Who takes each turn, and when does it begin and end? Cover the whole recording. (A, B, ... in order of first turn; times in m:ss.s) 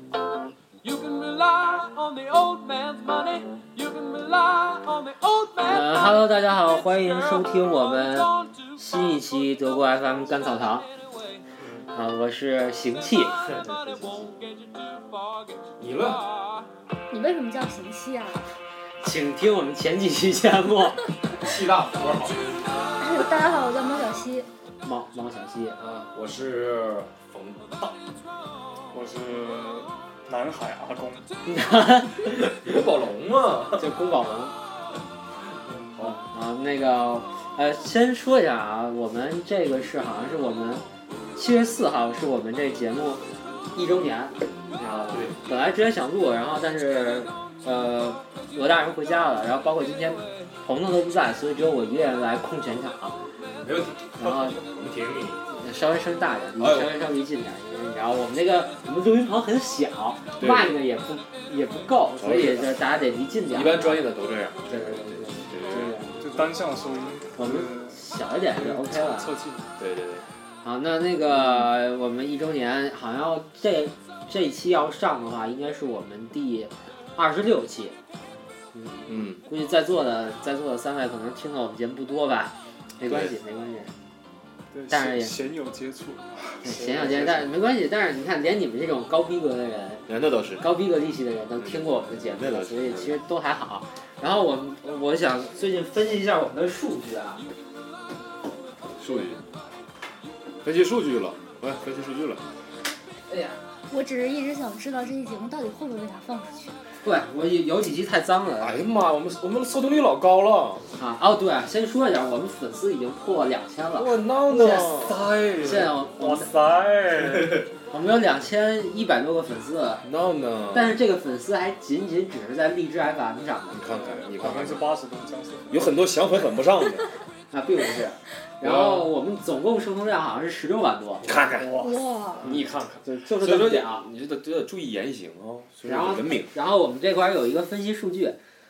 0:00.8-0:06.2 A
0:05.6-0:10.9 B
0:07.1-0:07.4 A
0:11.9-0:13.3 B
0:13.4-0:15.6 A
0:15.8-0:16.2 C
0:17.1-0:18.4 D
0:19.0-0:21.1 B
0:21.4-0:22.5 C
0:23.0-0:24.5 D
0:24.8-0:25.8 B
0:25.8-0:27.9 C
0:28.9-0:31.2 E
0:31.4-0:32.7 B
0:32.4-0:33.9 C
0:33.8-0:34.6 B
0:35.7-0:36.2 C
0:36.1-0:40.8 B
0:41.4-0:43.2 B
0:43.7-0:53.2 B
0:45.0-0:45.4 C
0:53.6-0:55.4 C
0:54.2-0:54.6 B
0:55.5-1:04.1 B
0:56.6-0:57.0 C
1:00.4-1:00.8 C
1:02.2-1:02.8 C
1:03.5-1:06.0 C
1:04.7-1:06.4 B
1:05.7-1:08.0 E
1:07.4-1:09.4 B
1:08.5-1:09.7 E
1:09.8-1:10.2 C
1:10.6-1:18.0 B
1:18.7-1:23.9 B
1:19.1-1:19.4 C
1:23.0-1:23.3 C
1:24.7-1:27.5 E
1:24.9-1:25.4 B
1:26.6-1:30.0 B
1:30.1-1:30.6 C
1:30.6-1:37.4 B
1:31.6-1:33.2 C
1:39.0-1:39.4 C
1:40.6-1:42.4 C
1:43.3-1:43.6 B
1:43.9-1:46.8 D
1:47.0-1:48.8 B
1:48.6-1:50.9 C
1:51.0-1:55.0 B
1:53.9-1:55.9 C
1:54.5-1:57.6 E
1:55.6-1:56.5 B
1:57.9-2:00.1 B
2:00.0-2:01.0 C
2:00.7-2:04.2 B
2:03.7-2:04.9 C
2:03.9-2:05.9 E
2:05.7-2:07.1 C
2:07.5-2:11.6 B
2:08.6-2:09.0 C
2:11.2-2:11.7 C
2:11.3-2:13.0 E
2:11.7-2:12.4 D
2:12.5-2:14.1 B
2:13.4-2:16.5 C
2:15.8-2:18.4 B